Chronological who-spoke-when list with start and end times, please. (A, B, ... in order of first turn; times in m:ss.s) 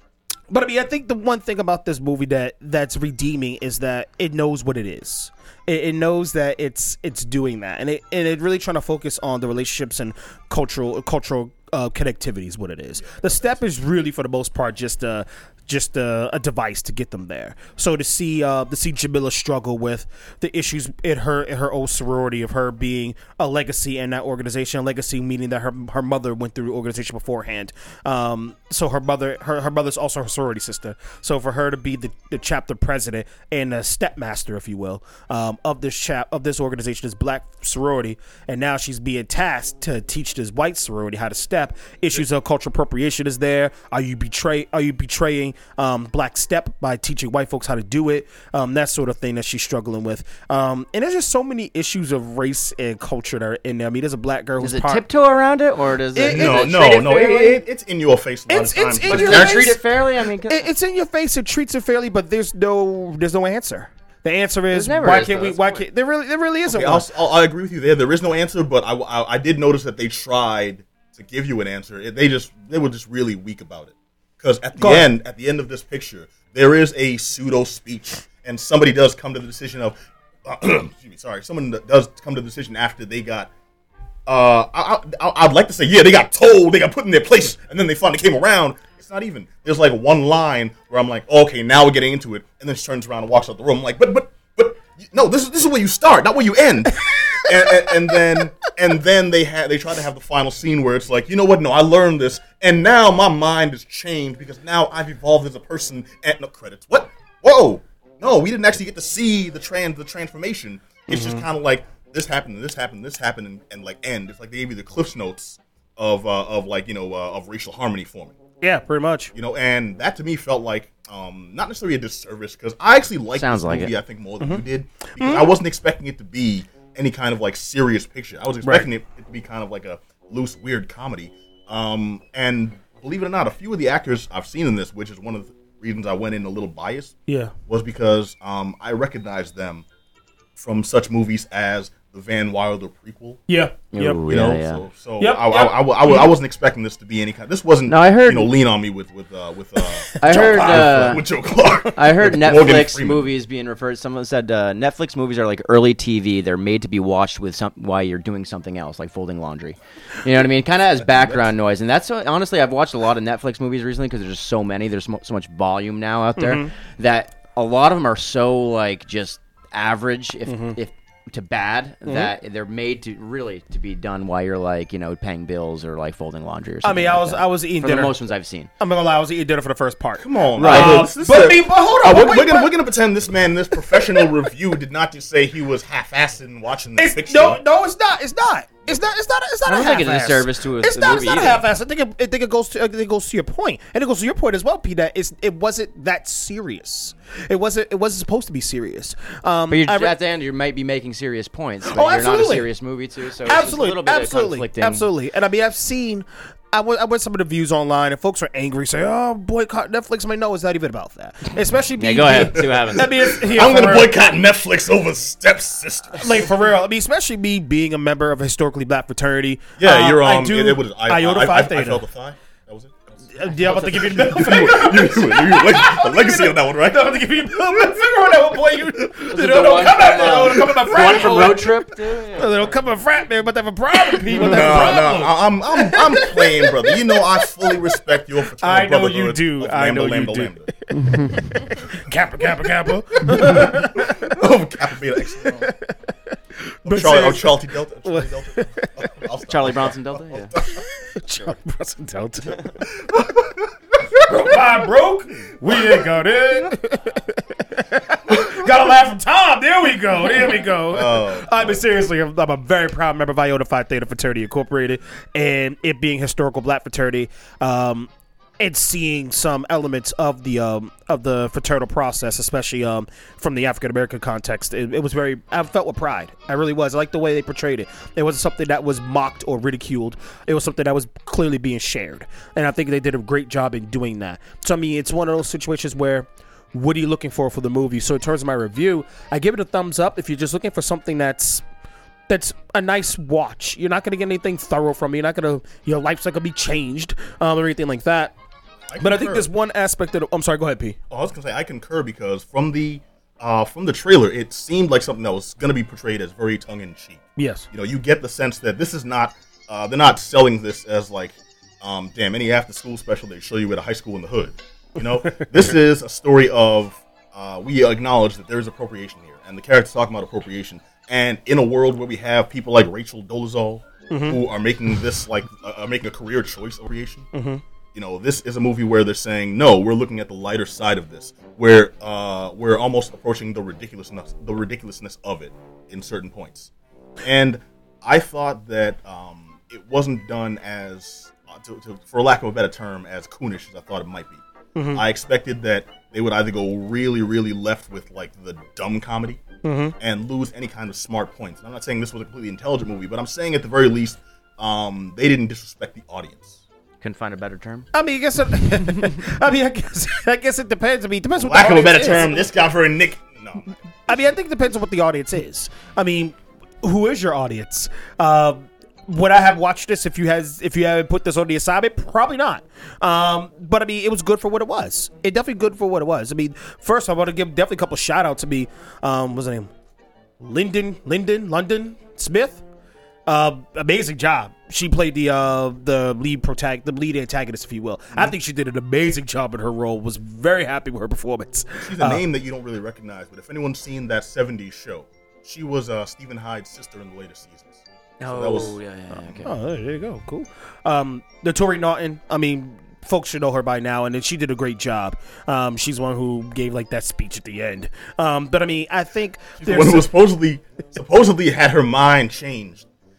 0:00.5-0:55.0 A
0:13.0-0:13.6 B
0:54.6-0:57.6 C
0:56.1-0:57.3 A
0:56.2-0:59.8 B
0:58.5-0:59.8 A
0:59.0-1:00.7 C
1:00.4-1:07.1 A
1:04.7-1:05.8 C
1:06.7-1:23.5 B
1:14.8-1:15.1 A
1:24.2-1:58.4 B
1:37.5-1:37.9 A
1:51.1-1:51.4 A
1:58.6-1:59.3 A
1:59.3-2:17.2 B
2:03.3-2:03.9 C
2:04.4-2:04.6 A
2:05.2-2:05.6 A
2:08.6-2:08.9 A
2:17.3-2:17.5 A
2:17.7-2:19.8 B
2:20.6-2:23.4 B
2:23.5-2:24.4 A
2:23.9-2:24.8 C
2:24.3-2:33.3 B
2:25.2-2:26.3 A
2:27.9-2:28.5 C
2:30.2-2:31.2 C
2:30.2-2:31.2 A
2:31.9-2:58.7 C
2:46.4-2:46.7 A
2:50.4-2:50.8 A
2:52.0-2:52.3 A
2:56.8-2:58.1 A
2:58.8-3:02.7 A
3:00.2-3:07.6 B
3:00.6-3:01.1 C
3:03.7-3:04.3 A
3:07.0-3:20.1 A
3:09.6-3:11.6 C
3:19.7-3:25.0 C
3:21.8-3:22.7 A
3:23.4-3:34.2 A
3:32.0-3:33.6 C
3:32.5-3:36.5 B
3:36.1-3:42.0 A
3:39.8-3:47.2 B
3:43.3-3:57.9 A
3:47.7-3:48.0 B
3:49.2-3:52.7 C
3:54.3-4:00.7 B
3:54.6-3:54.9 C
3:58.6-4:04.3 A
4:03.2-4:05.7 B
4:05.3-4:05.9 A
4:06.6-4:09.1 A
4:06.8-4:10.8 B
4:09.5-4:10.5 C
4:10.7-4:12.8 A
4:13.0-4:13.6 B
4:14.1-4:51.6 A
4:20.9-4:21.8 B
4:52.3-4:58.3 A
4:58.9-4:59.4 B
4:59.0-5:01.0 A
5:01.1-5:27.3 B
5:07.4-5:07.7 A
5:15.2-5:15.7 A
5:24.1-5:24.4 A
5:27.3-5:27.6 A
5:27.9-5:36.7 B
5:37.2-5:44.4 B
5:44.7-5:45.0 A
5:44.9-5:49.4 B
5:49.6-5:49.9 A
5:50.0-5:56.6 B
5:57.0-5:57.9 C
5:57.9-6:02.4 A
6:01.4-6:03.8 B
6:04.1-6:19.7 A
6:20.4-6:22.6 A
6:23.3-6:32.3 A
6:31.8-6:39.4 B
6:38.2-6:39.5 C
6:39.4-6:50.1 A
6:49.6-6:52.8 B